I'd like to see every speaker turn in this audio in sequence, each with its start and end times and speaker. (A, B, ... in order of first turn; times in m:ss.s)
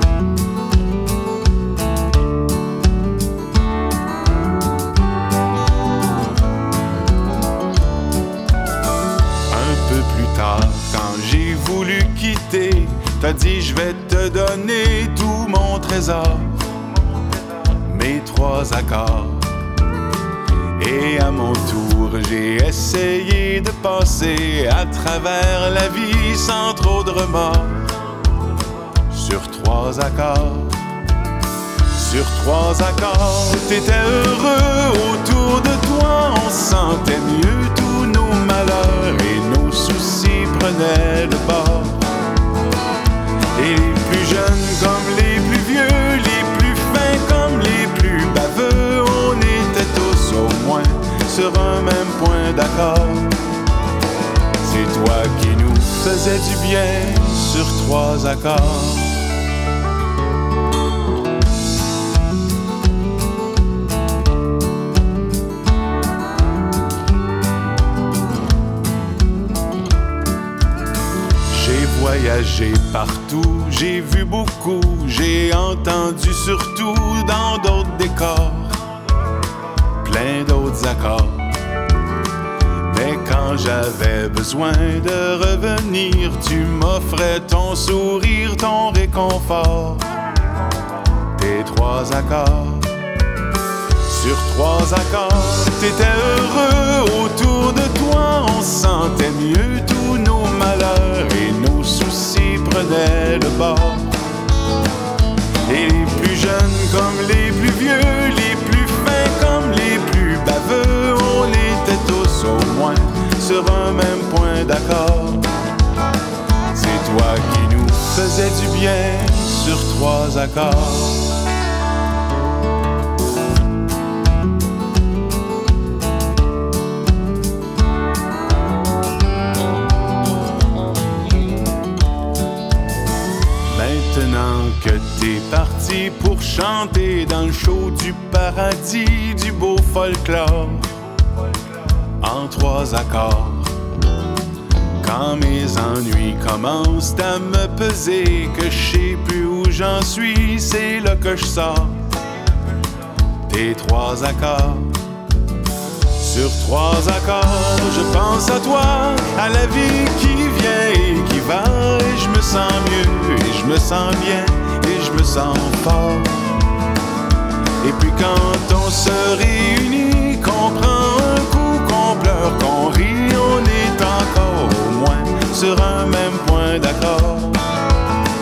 0:09.5-0:16.6 A
0:17.7-0:19.4 A
0:20.8-0:27.8 A
0:29.1-0:30.8 A
0:31.9-0:42.0 A
0:43.5-0:53.3 A
0:54.6-0:59.2 A
1:11.5-1:18.8 A
1:20.0-1:21.5 A
1:22.8-1:30.0 A
1:31.3-1:32.9 A
1:34.0-1:44.1 A
1:45.7-1:55.4 A
1:56.7-2:01.3 A
2:13.7-2:20.9 A
2:22.2-2:23.7 A
2:25.0-2:32.0 A
2:33.5-2:34.9 A
2:36.2-2:46.5 A
2:47.8-2:57.6 A